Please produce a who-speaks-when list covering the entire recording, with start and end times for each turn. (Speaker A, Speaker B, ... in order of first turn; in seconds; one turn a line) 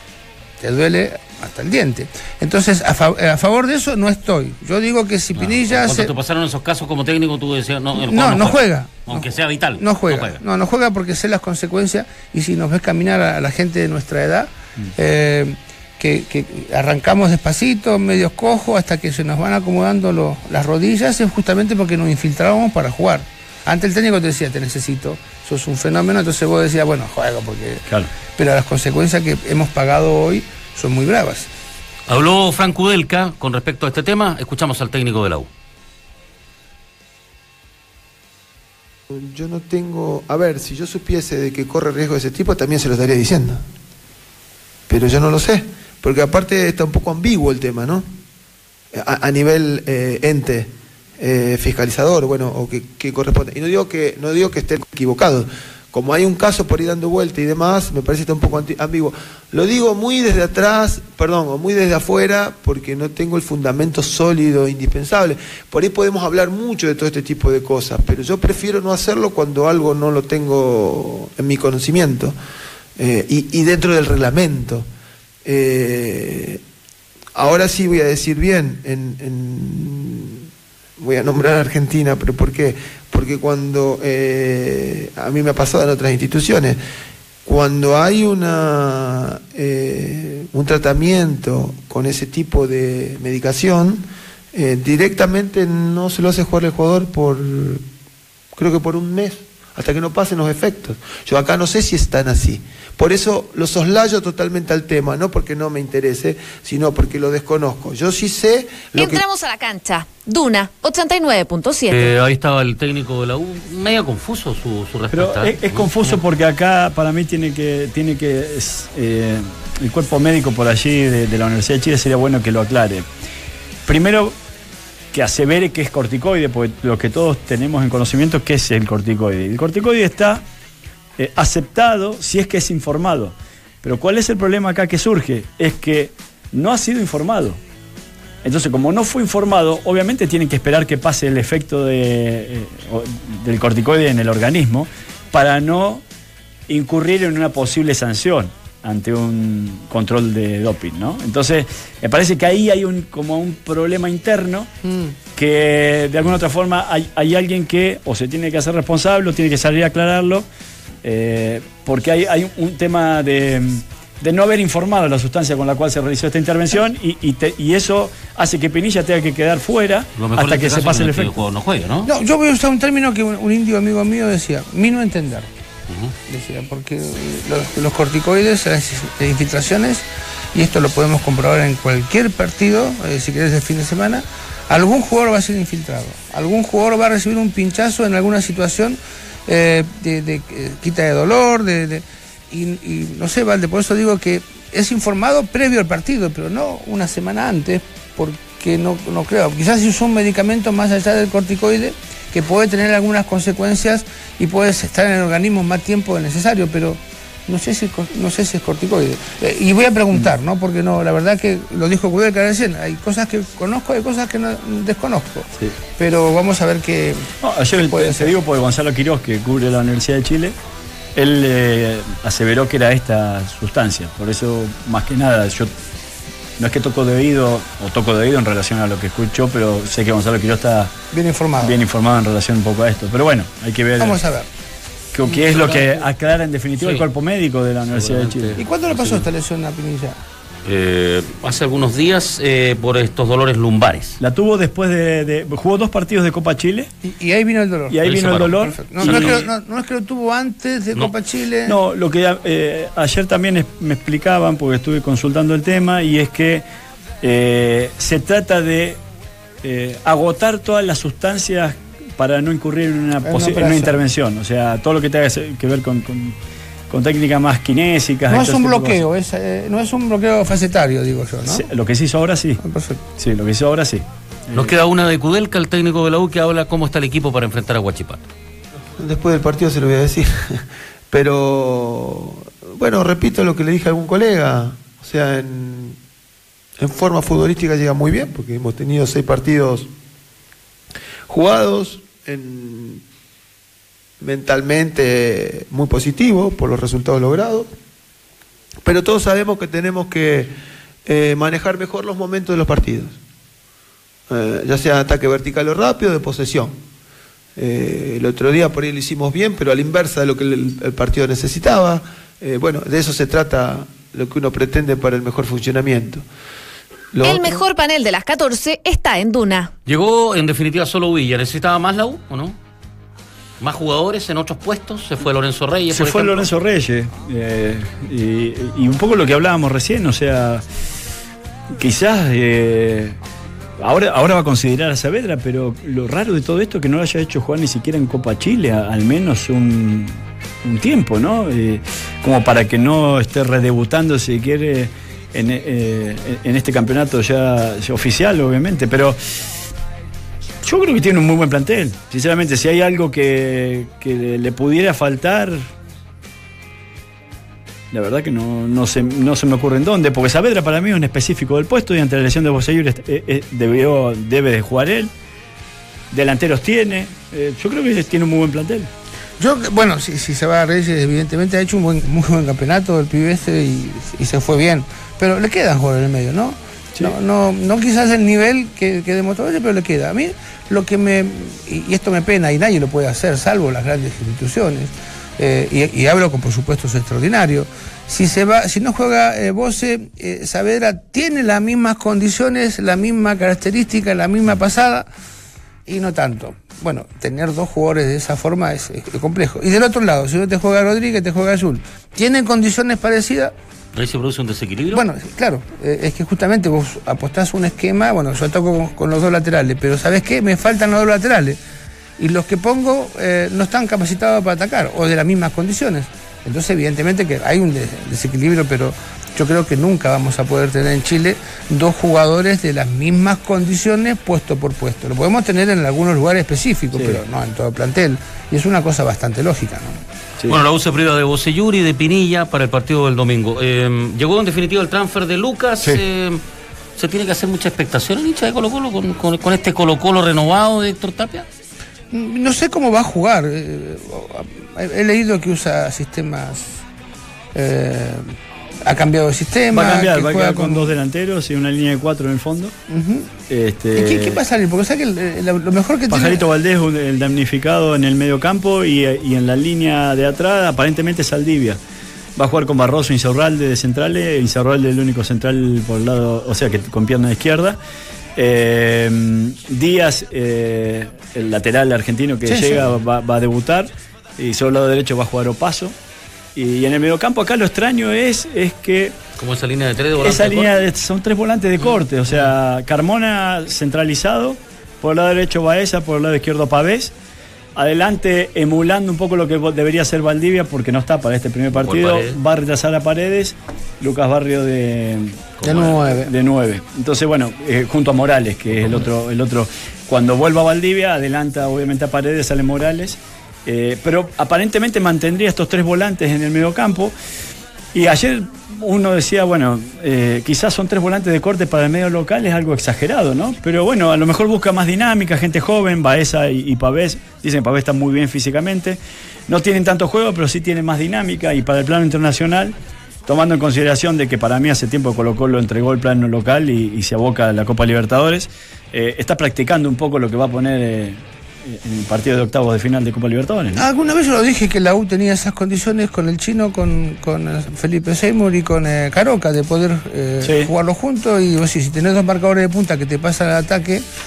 Speaker A: 0.6-6.1
Speaker B: 5.3-10.4
Speaker A: 7.9-31.5
Speaker B: 32.1-35.5
Speaker C: 39.1-43.6
Speaker C: 44.9-48.1
Speaker C: 48.9-72.3
Speaker C: 73.0-74.9
Speaker C: 75.4-76.6
Speaker C: 77.3-80.5
Speaker C: 81.0-86.8
Speaker C: 87.4-97.8
Speaker C: 98.5-109.2
Speaker D: 108.9-112.1
Speaker B: 111.9-116.2
Speaker E: 115.1-123.1
Speaker E: 123.8-124.3
Speaker E: 125.1-130.4
Speaker E: 131.2-137.6
Speaker E: 138.4-146.0
Speaker E: 146.7-154.7
Speaker A: 154.8-155.1
Speaker E: 155.3-160.5
Speaker E: 161.0-171.4
Speaker B: 170.2-172.1
Speaker A: 172.0-175.5
Speaker B: 175.9-176.1
Speaker A: 176.3-218.3
Speaker E: 217.4-220.5
Speaker E: 221.1-225.7
Speaker E: 226.6-230.9
Speaker A: 231.1-231.8
Speaker E: 231.6-234.2
Speaker A: 234.0-234.5
Speaker E: 235.1-238.6
Speaker B: 235.3-236.0
Speaker B: 236.8-237.1
Speaker B: 237.9-239.3
Speaker A: 238.6-240.2
Speaker B: 240.6-244.2
Speaker E: 244.2-246.9
Speaker A: 247.0-251.8
Speaker E: 247.9-249.4
Speaker B: 248.0-249.5
Speaker E: 251.7-256.6
Speaker E: 257.2-259.0
Speaker E: 259.6-266.4
Speaker A: 263.2-264.0
Speaker E: 266.9-269.0
Speaker A: 268.3-271.7
Speaker E: 271.4-272.6
Speaker A: 272.6-273.0
Speaker E: 273.2-274.7
Speaker B: 274.5-278.2
Speaker C: 279.0-286.0
Speaker C: 286.8-289.9
Speaker C: 291.3-293.0
Speaker C: 294.2-297.7
Speaker C: 298.8-300.5
Speaker C: 301.0-303.2
Speaker C: 304.3-306.8
Speaker C: 307.6-316.2
Speaker C: 317.1-317.6
Speaker D: 317.2-319.7
Speaker B: 319.9-322.6
Speaker B: 323.6-326.5
Speaker E: 325.9-330.6
Speaker E: 331.7-333.2
Speaker E: 333.8-349.4
Speaker E: 350.6-355.7
Speaker E: 357.9-365.1
Speaker E: 366.1-368.9
Speaker A: 369.4-395.1
Speaker A: 395.9-403.5
Speaker B: 403.9-405.0
Speaker A: 404.9-411.6
Speaker A: 412.2-430.0
Speaker E: 426.9-427.2
Speaker B: 430.4-436.4
Speaker B: 437.0-441.5
Speaker A: 442.1-446.7
Speaker A: 447.5-448.3
Speaker A: 448.8-450.9
Speaker E: 449.7-452.7
Speaker A: 452.9-453.3
Speaker E: 453.5-454.4
Speaker A: 453.9-456.4
Speaker E: 456.1-461.8
Speaker E: 462.4-467.8
Speaker E: 468.4-475.9
Speaker A: 472.4-472.8
Speaker E: 476.5-479.2
Speaker B: 479.4-480.7
Speaker E: 480.2-487.1
Speaker E: 487.7-507.1
Speaker B: 491.7-492.4
Speaker B: 495.6-496.0
Speaker A: 495.6-496.3
Speaker E: 507.9-522.7
Speaker E: 523.2-533.8
Speaker A: 533.7-544.0
Speaker E: 540.4-540.7